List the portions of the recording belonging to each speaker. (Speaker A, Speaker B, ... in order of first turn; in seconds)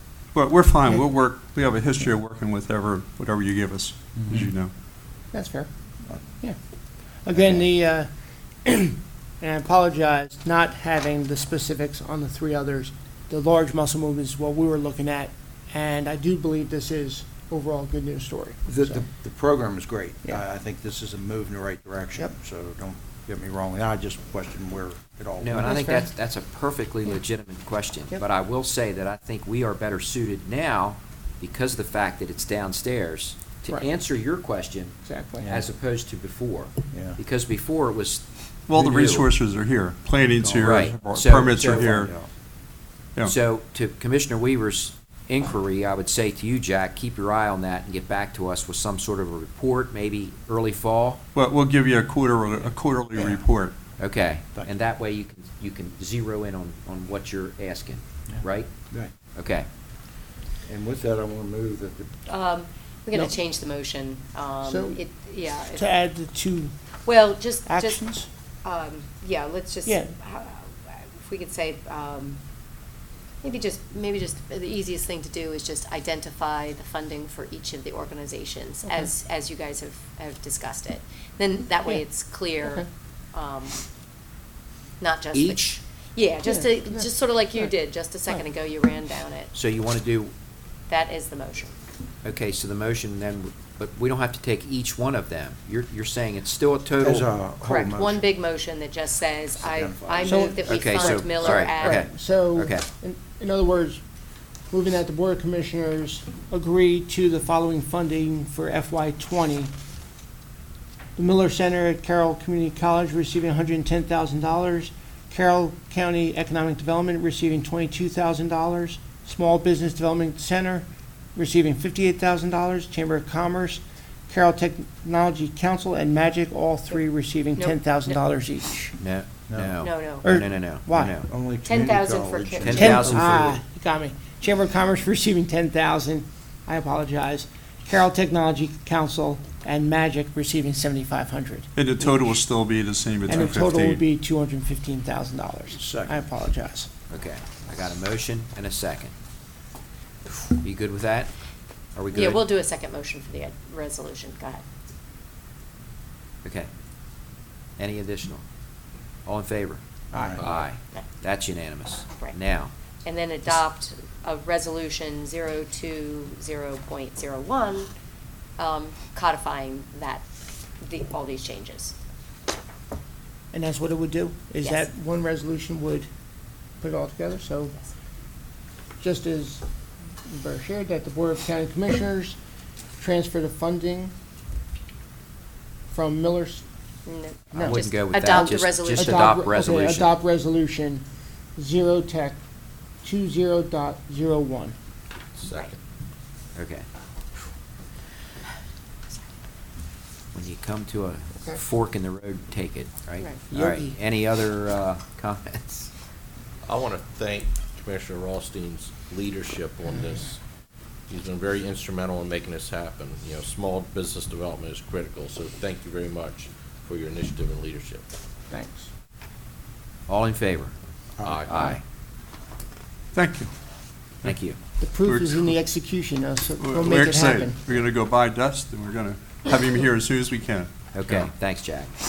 Speaker A: 0.3-4.7, 38.7-42.1, 51.3-53.8, 141.8-144.0, 223.1-223.5, 225.0-225.5, 226.6-231.2
Speaker B: 5.3-5.7, 7.2-8.1, 8.6-19.0, 25.5-26.1, 35.0-35.6, 64.6-65.0, 65.7-66.7, 67.7-68.3, 69.8-70.1, 86.5-87.7, 100.2-104.0, 104.7-109.7, 111.2-128.9, 130.2-131.2, 132.7-142.2, 143.3-146.9, 160.1-160.5, 173.5-176.1, 176.8-177.7, 179.0-179.6, 180.3-182.4, 183.0-184.1, 185.9-186.6, 187.5-191.0, 191.6-192.4, 193.0-194.7, 203.5-204.0, 218.5-218.9, 224.8-227.7
Speaker C: 18.7-25.7, 36.9-37.2, 41.6-42.3, 60.6-62.1, 97.0-98.2, 99.5-100.5, 129.5-129.7, 131.3-133.5, 145.7-146.1, 160.1-160.4
Speaker D: 25.4-39.3, 40.6-42.0, 43.2-51.2, 54.0-58.7, 59.3-59.7, 85.3-85.7, 89.5-90.3, 92.2-97.3, 100.6-102.9, 129.0-131.3, 132.7-133.6, 147.1-149.1, 150.6-151.3, 151.9-152.4, 156.4-156.7, 157.8-158.4, 159.2-159.8, 160.4-162.7, 187.5-190.1, 196.5-196.8, 200.3-205.9, 220.1-220.7, 221.4-221.8, 224.2-224.6, 230.9-232.0
Speaker E: 62.3-65.9, 67.0-68.0, 68.6-72.4, 73.4-83.8, 85.0-89.5, 90.9-91.7, 97.6-102.0, 127.5-128.2, 129.8-130.3, 131.6-133.2, 152.1-154.6, 163.0-167.9, 168.6-170.3, 170.8-171.9, 187.1-189.4
Speaker F: 195.4-195.7, 206.6-210.4, 211.1-218.0, 221.2-221.7